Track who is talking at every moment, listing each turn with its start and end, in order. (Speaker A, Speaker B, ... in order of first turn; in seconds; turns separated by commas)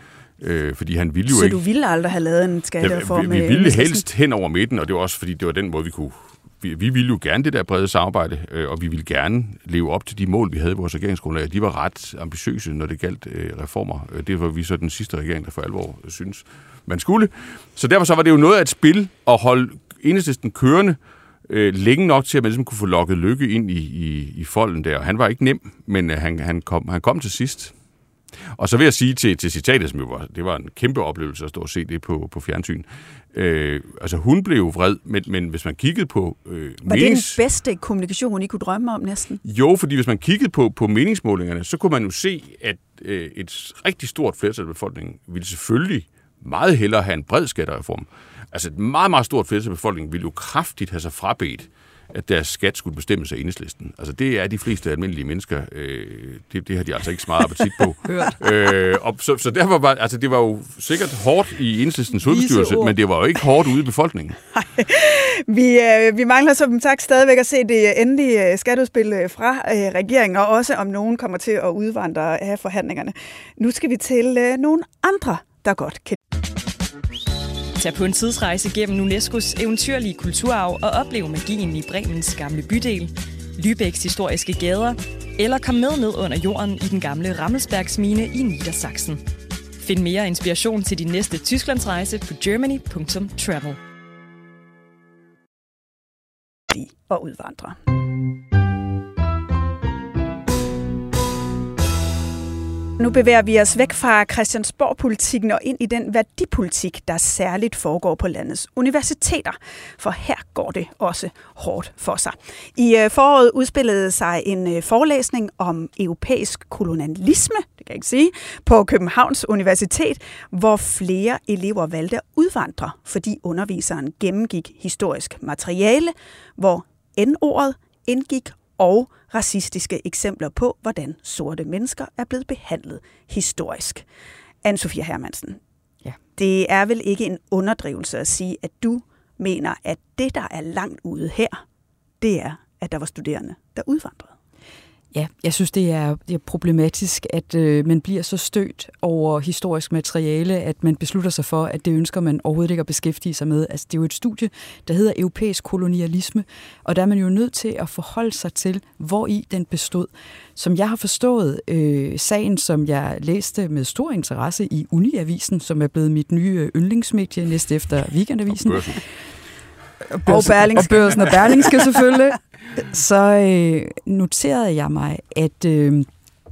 Speaker A: 0.4-1.6, Speaker B: 1.3-4.0, Speaker A: 2.8-27.7, Speaker A: 28.6-37.4, Speaker B: 36.9-39.4, Speaker A: 39.4-64.4, Speaker C: 58.1-58.3, Speaker C: 62.2-62.9, Speaker B: 64.6-76.2, Speaker D: 77.8-89.2, Speaker D: 89.8-93.8, Speaker B: 96.7-97.8, Speaker B: 103.0-134.1, Speaker B: 134.6-135.6, Speaker B: 136.4-141.6, Speaker B: 142.2-144.3, Speaker C: 145.1-169.0, Speaker A: 168.6-169.0, Speaker C: 170.1-176.1, Speaker B: 170.3-171.7